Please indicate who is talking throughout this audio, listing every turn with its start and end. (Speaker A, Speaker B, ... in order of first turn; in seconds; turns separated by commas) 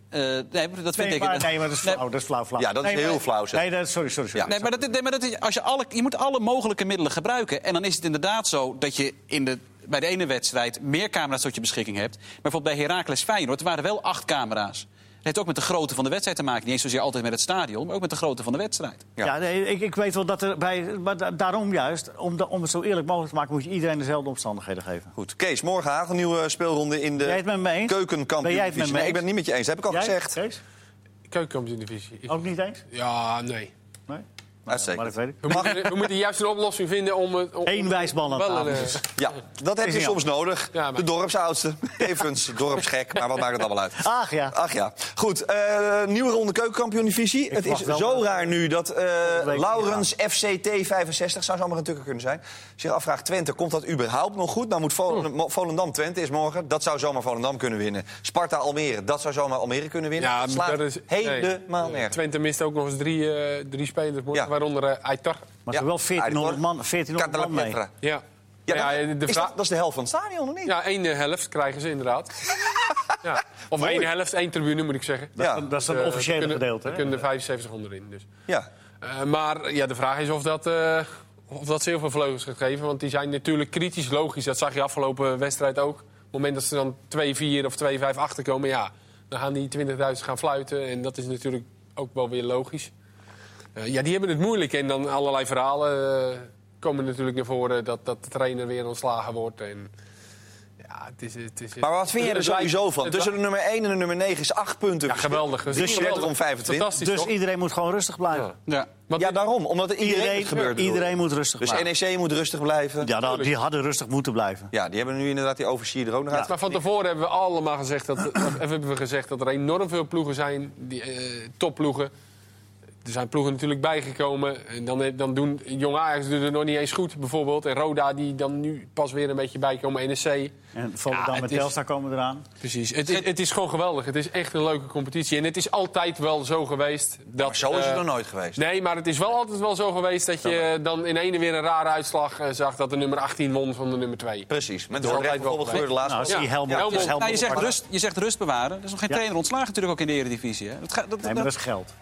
Speaker A: 0.1-2.0, Speaker B: 0.9-4.8, Speaker C: 2.6-3.6, Speaker A: 4.5-19.0, Speaker B: 19.2-25.1, Speaker C: 25.1-30.4, Speaker B: 27.2-29.2, Speaker B: 29.9-30.6, Speaker D: 31.3-32.4, Speaker B: 32.3-32.9, Speaker D: 32.9-33.7, Speaker B: 34.1-35.6, Speaker C: 34.7-36.1, Speaker D: 35.4-39.1, Speaker B: 37.6-39.0, Speaker C: 39.2-62.1, Speaker B: 39.8-40.2, Speaker D: 40.7-41.0, Speaker B: 44.0-44.6, Speaker B: 47.5-48.4, Speaker B: 49.2-50.1, Speaker D: 60.2-65.5, Speaker B: 65.7-67.8, Speaker C: 65.7-66.6, Speaker C: 67.1-67.9, Speaker D: 68.0-69.5, Speaker C: 68.7-70.7, Speaker D: 70.6-72.5, Speaker C: 72.7-73.1, Speaker D: 73.2-78.2, Speaker C: 73.8-74.1, Speaker B: 75.4-77.2, Speaker C: 75.4-75.7, Speaker D: 79.0-92.9, Speaker D: 93.8-99.9, Speaker D: 100.8-103.3, Speaker C: 101.8-106.9, Speaker D: 105.1-107.3, Speaker B: 105.7-106.3, Speaker B: 106.9-108.5, Speaker D: 109.1-109.4, Speaker C: 109.1-111.1, Speaker B: 110.0-111.9, Speaker C: 111.6-113.1, Speaker B: 113.0-114.7, Speaker D: 113.2-113.5, Speaker C: 114.7-116.7, Speaker D: 116.4-122.1, Speaker D: 123.0-130.5, Speaker B: 130.7-132.4, Speaker A: 131.1-131.7, Speaker D: 132.6-138.0, Speaker C: 137.4-138.6, Speaker D: 138.6-147.1, Speaker C: 144.5-147.8, Speaker B: 145.7-147.7, Speaker A: 147.1-151.5, Speaker B: 151.2-151.9